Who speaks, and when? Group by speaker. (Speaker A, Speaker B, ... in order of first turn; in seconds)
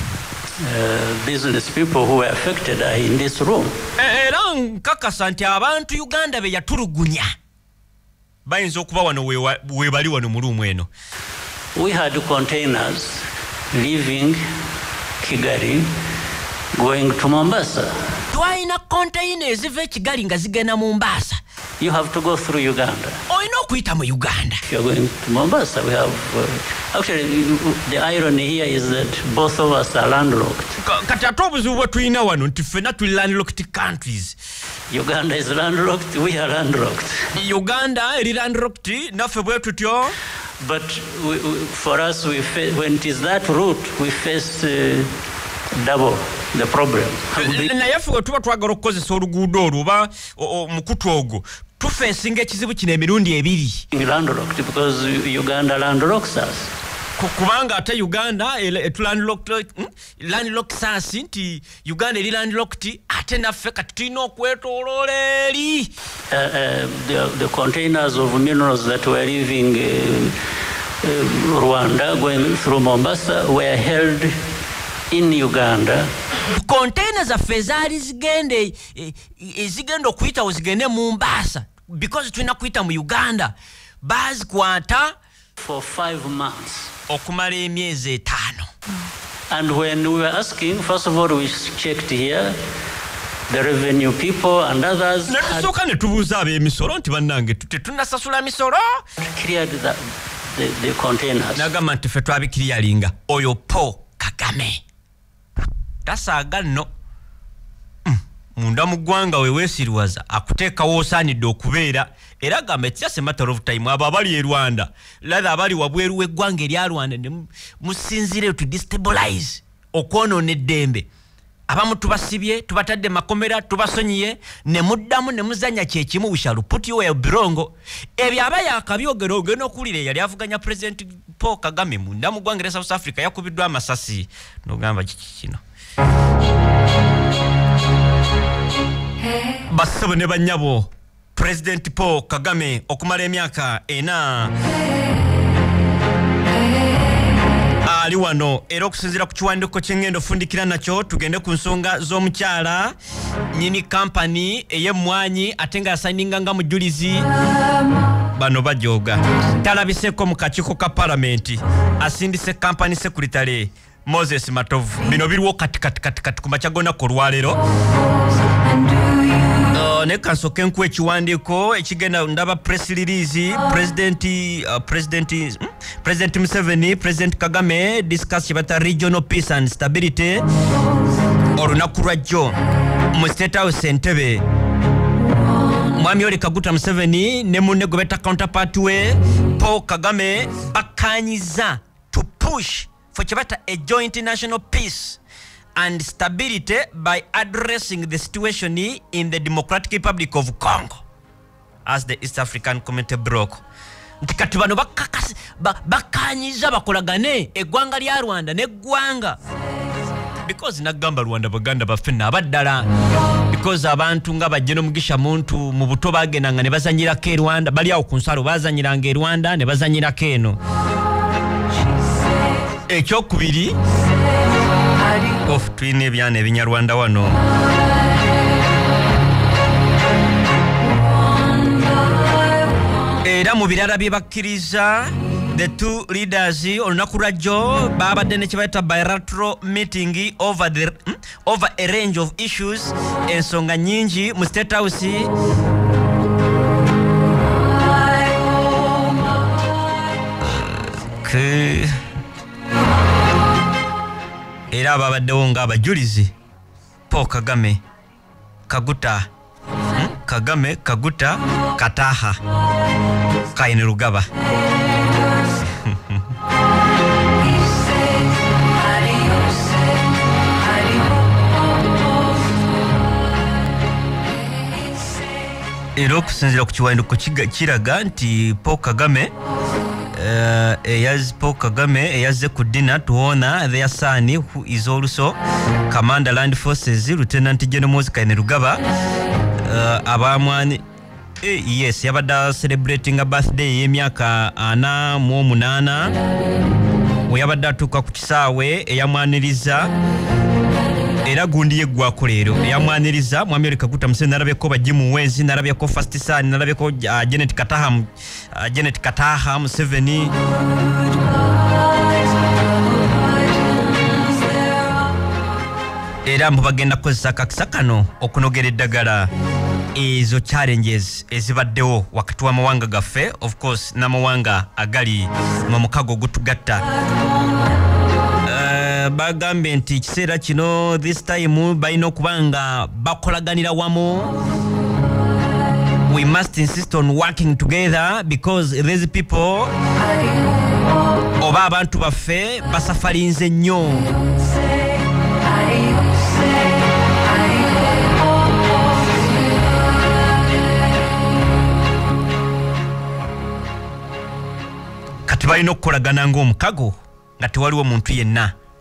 Speaker A: 0.6-3.7, 11.8-14.4, 15.2-15.9, 16.8-17.9, 21.8-23.2, 24.6-30.8, 34.9-37.3, 40.6-45.1, 45.8-47.8, 53.9-56.7, 66.3-70.4, 71.0-74.3, 75.1-76.1, 85.6-86.9, 89.5-92.5, 93.5-95.7, 99.2-100.0, 100.5-101.7
Speaker B: 4.0-7.3, 8.5-10.9, 18.3-21.4, 23.3-24.6, 30.8-34.4, 37.4-40.1, 47.4-53.9, 57.2-65.9, 76.5-85.2, 87.1-88.7, 95.3-99.0, 101.5-104.8, 106.0-106.9, 108.1-121.1, 121.7-135.6, 139.7-144.5, 147.9-152.9, 153.5-157.3, 158.3-167.6, 169.7-180.4, 181.6-182.6, 183.1-184.4, 185.9-195.2, 195.8-201.0, 201.9-203.6, 204.2-209.4, 210.4-212.8, 213.5-220.6, 222.9-223.8, 225.4-227.4, 233.2-245.3, 250.4-251.9, 254.7-256.3, 257.1-257.8, 258.7-259.3, 259.9-262.4, 263.6-264.3, 265.8-266.2, 276.0-279.3, 280.1-285.4, 285.9-288.8, 289.7-290.8, 291.4-296.1, 297.3-299.9, 301.2-310.3, 316.3-319.3, 319.9-326.9, 328.5-334.4, 336.1-339.7, 341.4-344.1, 355.3-358.5